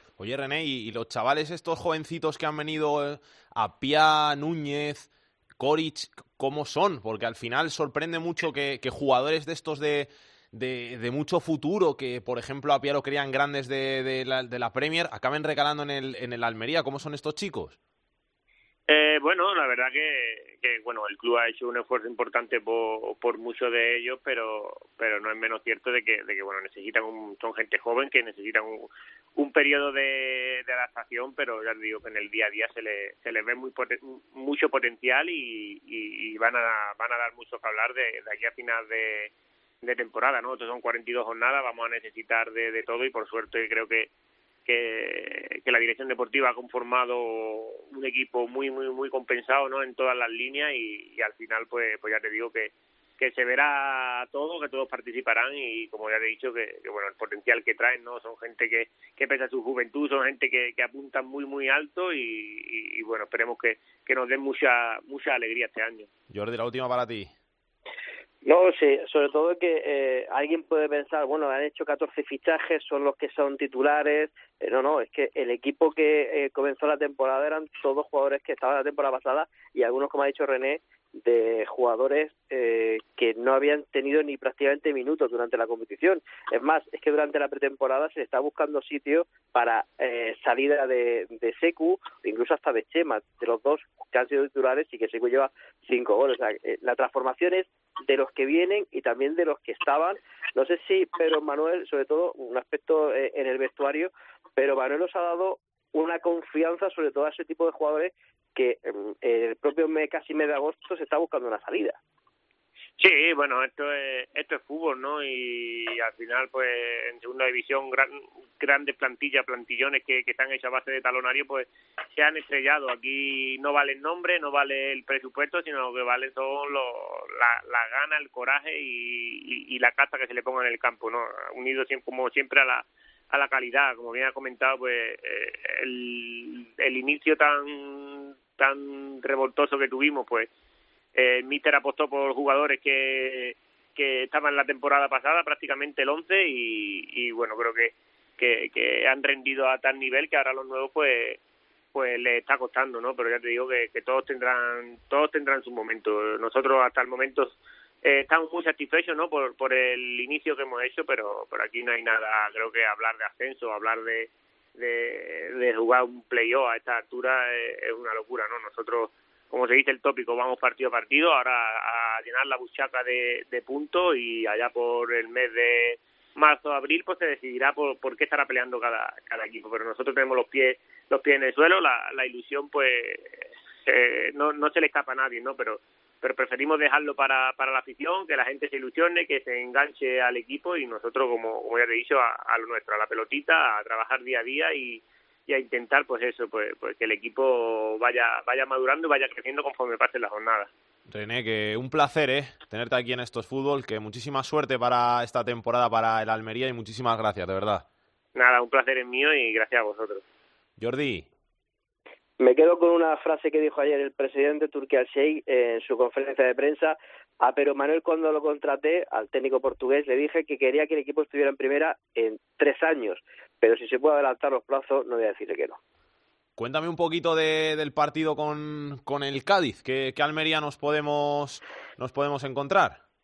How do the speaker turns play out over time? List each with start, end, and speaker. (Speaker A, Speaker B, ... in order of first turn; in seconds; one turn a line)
Speaker A: 0.2-17.8
Speaker B: 18.9-39.3
Speaker B: 39.8-44.1
Speaker B: 44.7-66.1
Speaker A: 66.3-67.3
Speaker C: 68.5-112.0
Speaker B: 113.0-140.5
Speaker B: 141.2-151.4
Speaker B: 151.9-200.7
Speaker A: 201.1-207.8
Speaker B: 208.3-210.2
Speaker A: 210.8-211.3
Speaker C: 212.4-225.8
Speaker A: 226.6-233.0